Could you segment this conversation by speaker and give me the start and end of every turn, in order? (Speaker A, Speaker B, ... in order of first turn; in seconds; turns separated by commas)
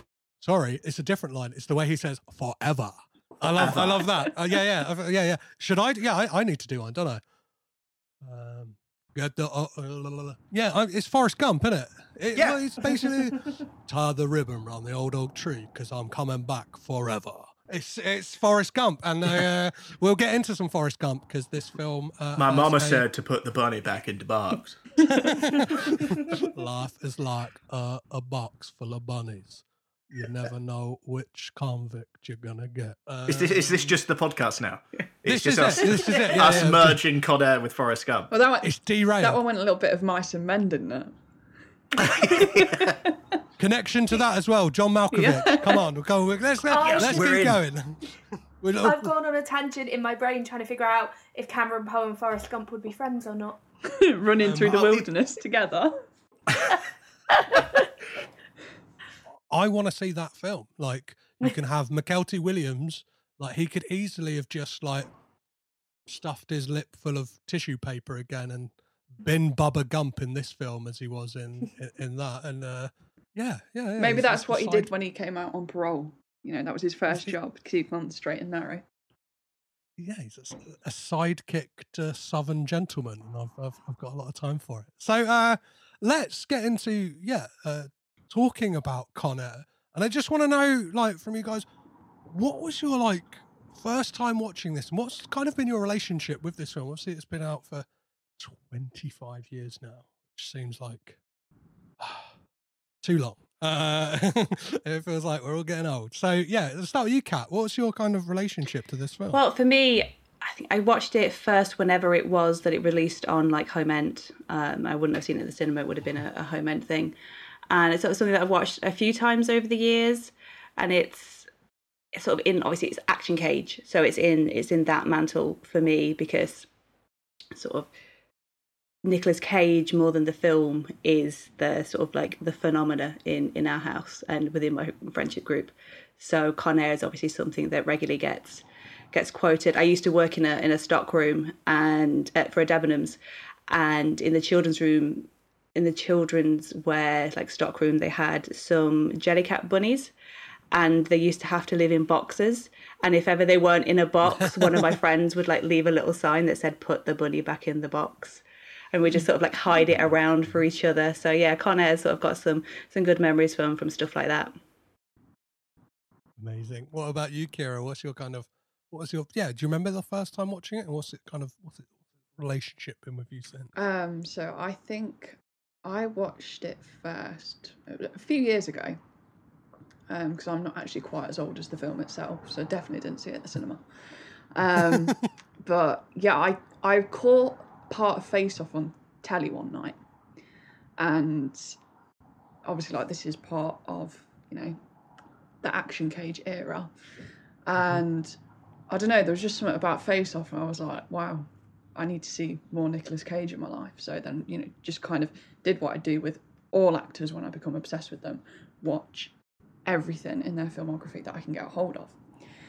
Speaker A: 0.4-7.2, Speaker B: 3.5-4.2, Speaker A: 8.2-23.0, Speaker B: 12.3-13.1, Speaker B: 22.4-24.8, Speaker A: 25.0-34.0, Speaker B: 33.3-38.3, Speaker A: 35.2-37.0, Speaker C: 38.3-41.1, Speaker A: 38.6-39.4, Speaker B: 42.0-43.0, Speaker C: 42.0-43.1, Speaker A: 43.6-48.0, Speaker C: 45.1-45.8, Speaker D: 46.7-47.3, Speaker B: 46.8-47.6, Speaker A: 48.6-49.1, Speaker D: 48.8-53.6, Speaker C: 53.9-56.0, Speaker A: 54.4-54.8, Speaker B: 54.5-55.1, Speaker A: 59.5-65.1, Speaker A: 66.1-74.9, Speaker C: 74.0-78.8, Speaker A: 77.1-77.4, Speaker A: 80.0-91.7, Speaker A: 92.3-97.9, Speaker A: 98.4-101.2, Speaker A: 102.0-102.3, Speaker A: 103.0-109.4, Speaker E: 109.3-117.1, Speaker E: 117.7-121.5, Speaker E: 122.1-126.7, Speaker E: 127.5-127.9, Speaker E: 129.0-143.2, Speaker E: 143.7-150.1, Speaker E: 150.7-164.6, Speaker A: 154.3-154.9, Speaker A: 166.4-173.7, Speaker C: 173.8-179.0, Speaker C: 180.1-183.8, Speaker C: 184.5-190.0, Speaker A: 184.7-185.2, Speaker C: 191.0-191.8, Speaker C: 192.6-194.8, Speaker C: 195.6-196.9, Speaker C: 197.7-198.3, Speaker C: 198.9-209.3, Speaker C: 209.9-212.2